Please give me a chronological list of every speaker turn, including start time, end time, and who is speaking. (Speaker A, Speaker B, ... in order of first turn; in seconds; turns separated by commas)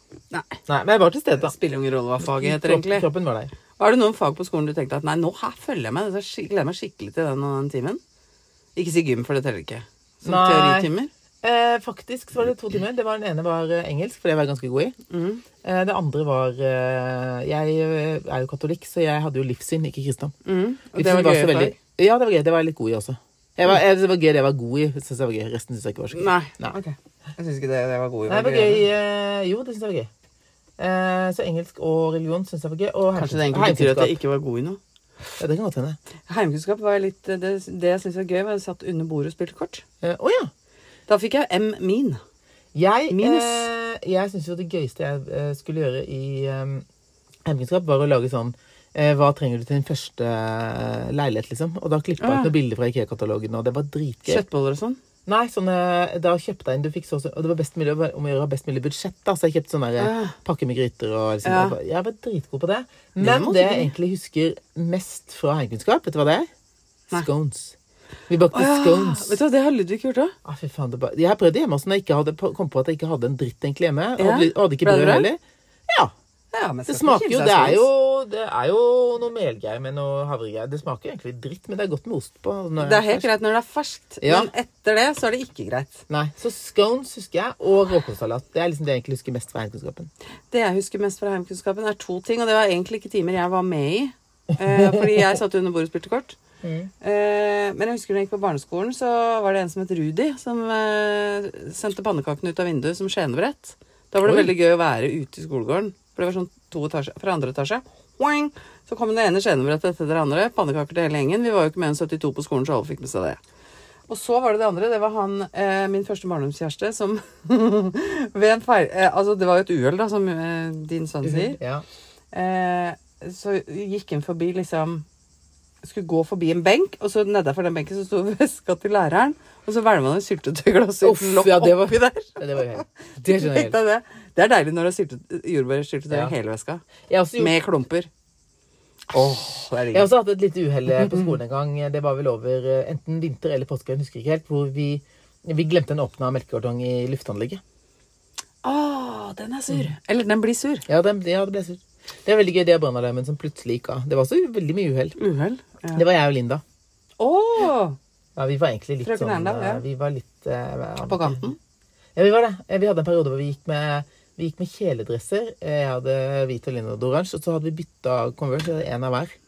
Speaker A: 0.3-0.6, Speaker B: 0.7-1.5, Speaker A: 1.4-3.1, Speaker B: 2.2-3.5, Speaker A: 3.8-8.0, Speaker A: 8.8-11.1, Speaker B: 10.2-10.9, Speaker B: 11.4-14.9, Speaker A: 15.1-15.4, Speaker B: 15.6-20.4, Speaker A: 20.4-21.8, Speaker B: 20.9-26.8, Speaker A: 26.1-28.8, Speaker B: 28.3-30.1, Speaker B: 30.8-34.2, Speaker A: 33.1-34.8, Speaker B: 35.4-36.0, Speaker A: 36.3-39.8, Speaker B: 40.0-40.5, Speaker A: 41.1-42.2, Speaker B: 42.7-46.9, Speaker A: 43.1-43.7, Speaker B: 47.4-54.4, Speaker A: 52.2-52.5, Speaker A: 54.2-55.0, Speaker B: 55.2-66.5, Speaker A: 60.0-60.4, Speaker A: 61.4-61.8, Speaker A: 63.2-63.9, Speaker B: 67.1-67.8, Speaker B: 68.3-69.4, Speaker A: 68.5-70.3, Speaker B: 70.4-76.1, Speaker A: 74.2-75.3, Speaker A: 76.5-77.9, Speaker B: 76.9-83.3, Speaker A: 82.8-86.0, Speaker B: 84.2-84.5, Speaker B: 86.1-90.1, Speaker A: 90.5-96.4, Speaker B: 94.6-95.3, Speaker B: 96.6-96.9, Speaker A: 97.0-113.4, Speaker B: 104.2-104.5, Speaker A: 114.1-121.6, Speaker B: 121.2-121.8, Speaker A: 122.3-125.0, Speaker A: 125.8-136.8, Speaker B: 131.0-133.8, Speaker B: 137.1-137.6, Speaker A: 137.4-138.1, Speaker A: 139.1-140.1, Speaker B: 139.9-147.6, Speaker A: 141.0-141.3, Speaker A: 148.6-150.9, Speaker B: 150.9-155.2, Speaker A: 155.2-156.0, Speaker B: 155.9-156.6, Speaker A: 157.2-158.0, Speaker B: 158.4-161.5, Speaker A: 159.0-159.8, Speaker A: 161.1-161.6, Speaker B: 162.1-169.3